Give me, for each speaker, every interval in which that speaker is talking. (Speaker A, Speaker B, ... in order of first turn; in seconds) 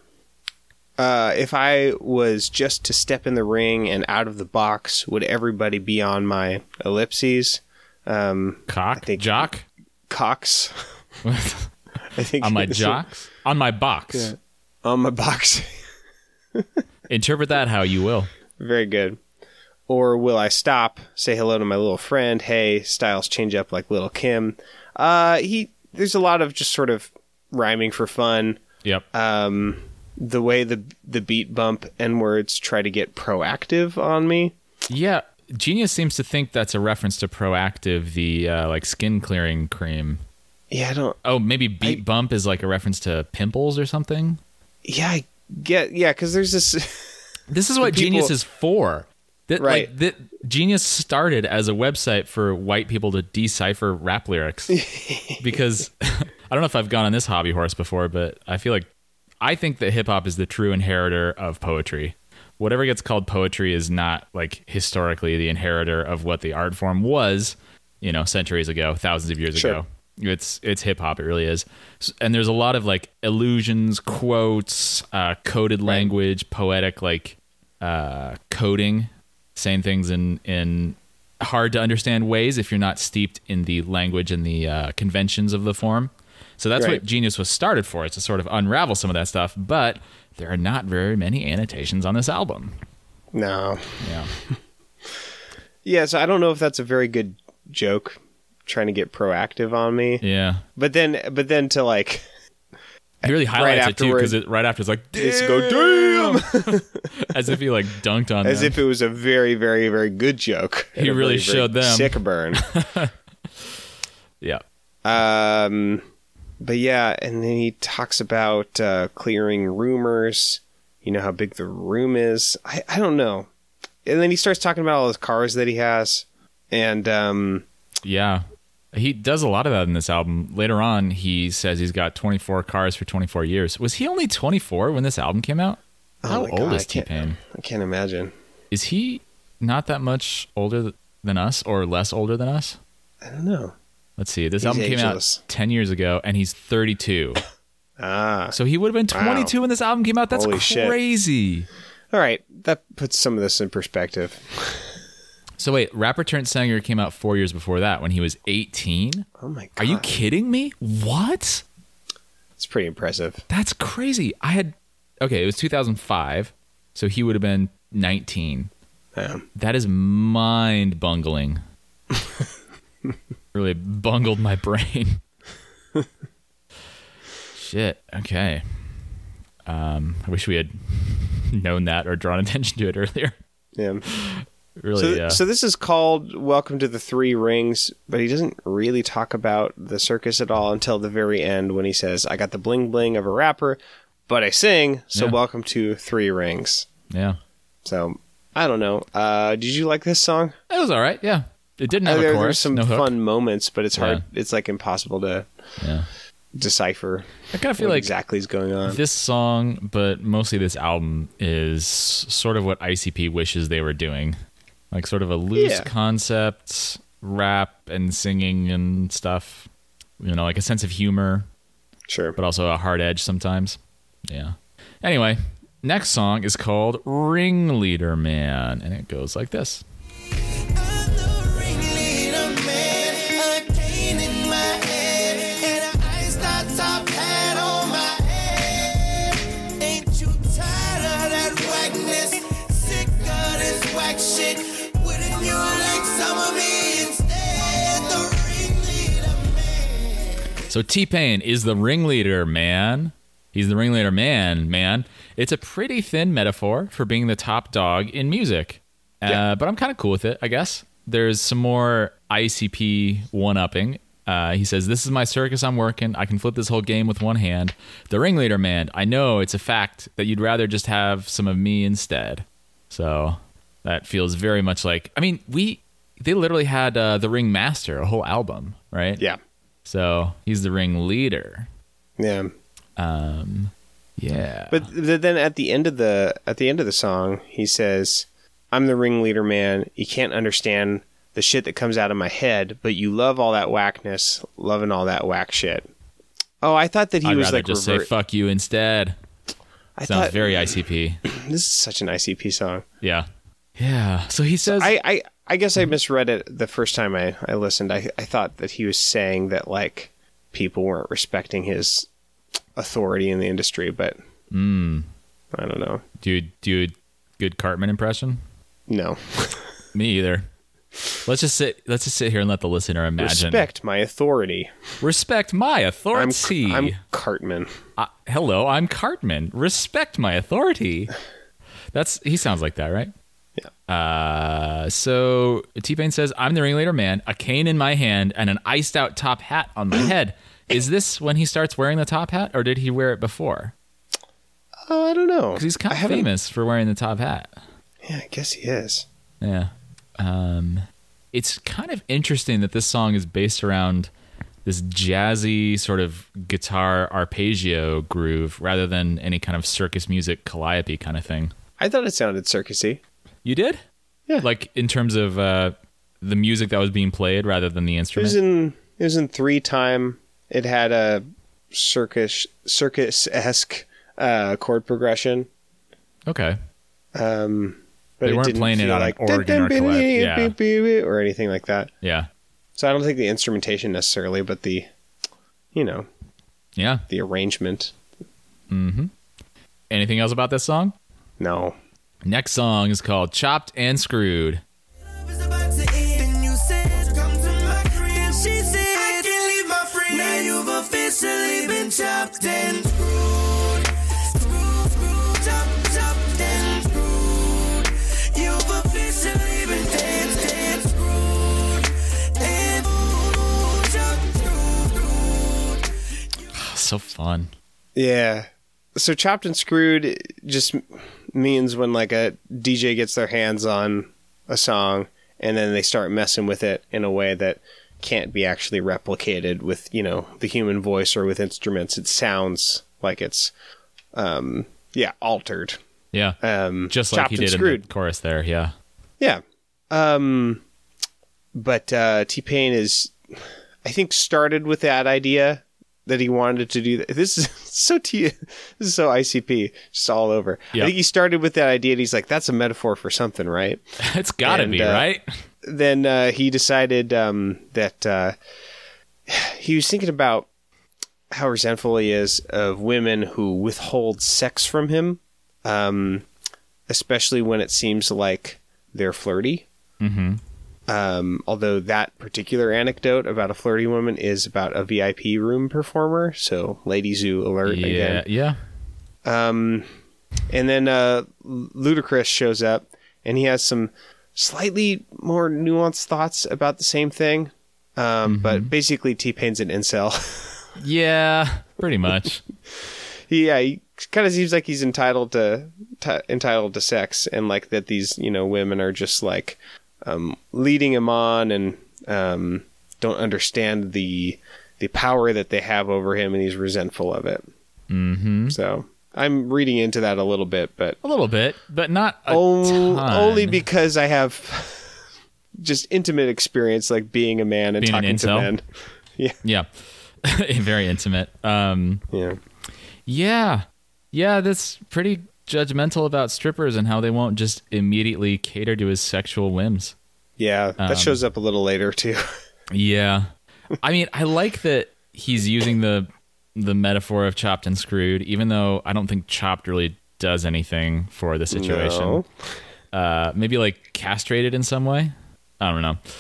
Speaker A: 1.0-9.5, 10.1-10.8, 12.1-13.0, 14.1-15.7, 18.6-19.2, 19.9-28.6, 29.1-34.5, 40.7-41.2, 44.9-47.1, 47.8-48.3, 49.6-49.9, 54.7-55.4, 86.8-87.0, 93.3-94.2, 95.8-100.2, 100.8-102.2, 103.3-104.4, 105.2-107.0, 108.4-112.6, 115.0-116.0, 116.6-123.5, 124.0-127.7, 136.2-138.3, 143.2-143.8, 144.6-145.4, 148.0-148.6, 149.1-149.5, 150.3-151.0, 152.1-154.9, 159.4-160.1, 162.6-163.4, 169.2-169.5, 183.8-184.1, 185.0-196.9, 197.8-200.6, 202.1-205.5, 206.6-209.0, 215.6-215.9, 222.1-222.4, 282.2-282.5, 284.7-295.9, 296.6-298.1, 300.0-300.7, 301.2-302.8, 304.6-312.1, 312.8-314.2, 315.5-316.0, 318.9-319.7, 323.2-324.7, 326.1-327.7, 344.9-346.3, 348.0-349.1, 361.8-363.0, 368.1-375.5, 377.1-381.9, 382.8-384.9, 385.7-386.1, 387.1-387.9, 391.4-391.8, 418.0-433.5, 434.1-435.8, 436.4-437.9, 439.2-440.6, 441.5-453.8, 454.4-455.0, 455.6-458.4, 459.3-460.5, 461.3-466.2, 466.9-469.7, 470.9-478.2, 479.2-479.9, 480.5-490.6, 493.3-507.4, 508.5-511.0, 512.3-515.0, 515.6-518.6, 522.1-522.4, 530.4-532.2, 541.5-542.3
Speaker B: 8.7-9.7, 11.2-11.7, 12.4-14.3, 17.1-18.3, 34.9-40.2, 41.2-44.4, 47.5-54.8, 55.4-58.9, 59.4-92.8, 94.0-94.3, 100.2-100.6, 103.2-108.8, 111.0-113.1, 128.0-137.4, 138.7-142.8, 144.2-147.4, 148.5-151.7, 155.6-159.3, 159.8-161.6, 163.5-168.7, 169.6-171.6, 173.5-175.2, 177.5-178.9, 179.7-183.4, 184.1-185.4, 197.1-197.4, 200.7-203.1, 204.0-204.2, 205.8-206.1, 207.5-208.1, 208.8-214.4, 214.9-219.7, 220.2-221.5, 222.4-229.8, 250.7-279.2, 279.9-281.7, 283.0-284.9, 297.2-299.2, 300.1-301.2, 303.0-304.9, 314.5-315.1, 316.2-318.4, 319.9-320.5, 321.2-323.7, 325.0-327.0, 328.0-331.1, 331.9-333.1, 333.9-343.7, 345.5-347.5, 349.4-354.1, 354.6-361.5, 363.4-363.8, 364.4-368.4, 376.2-376.6, 378.2-380.5, 382.0-382.3, 386.8-387.0, 388.7-389.1, 389.9-390.9, 392.2-394.6, 416.5-417.5, 436.1-438.7, 454.0-455.3, 470.0-470.4, 477.6-478.6, 488.2-488.7, 490.8-492.4, 507.9-508.6, 511.0-513.7, 517.8-518.5, 519.4-522.0, 523.0-530.0, 530.8-531.2, 532.7-533.3, 533.8-542.2, 542.9-546.0
Speaker C: 230.7-250.5, 395.1-415.9